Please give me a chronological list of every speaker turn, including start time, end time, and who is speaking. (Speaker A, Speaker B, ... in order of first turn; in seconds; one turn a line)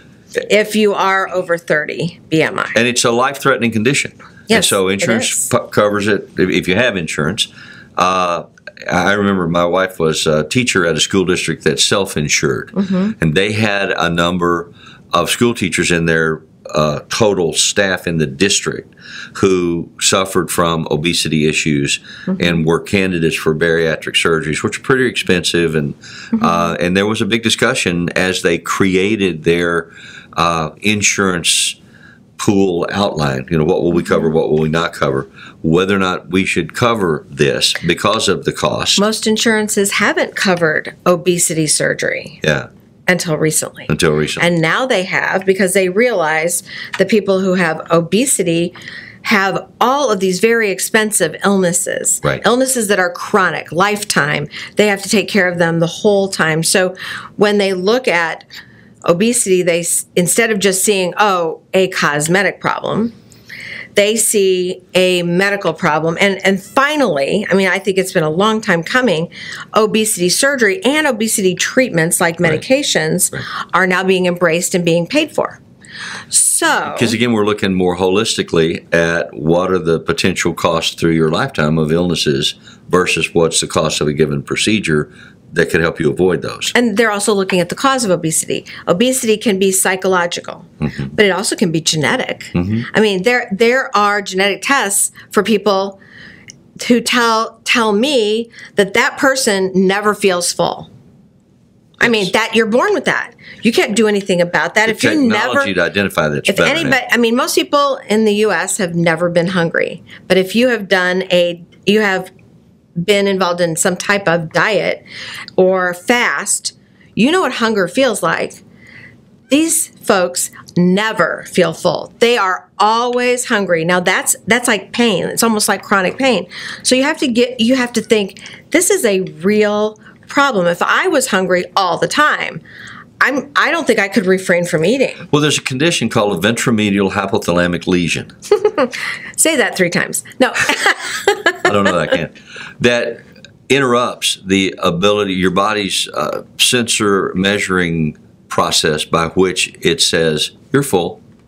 Speaker A: 0.5-2.8
Speaker B: 2.7-31.8
Speaker A: 4.5-5.5
Speaker A: 12.8-13.1
Speaker A: 22.3-22.6
Speaker B: 32.4-39.0
Speaker A: 39.0-42.4
Speaker B: 42.4-42.7
Speaker A: 43.1-58.5
Speaker B: 43.9-44.5
Speaker A: 59.0-63.1
Speaker A: 64.0-75.6
Speaker A: 76.3-77.2
Speaker B: 76.8-86.7
Speaker A: 86.7-96.0
Speaker B: 90.8-91.1
Speaker B: 92.5-92.9
Speaker A: 96.8-100.9
Speaker A: 102.0-105.7
Speaker B: 104.9-107.0
Speaker A: 106.5-112.3
Speaker A: 113.0-115.0
Speaker A: 115.6-118.6
Speaker A: 119.5-132.6
Speaker A: 133.2-135.3
Speaker B: 135.3-138.3
Speaker A: 138.6-141.7
Speaker B: 141.6-151.2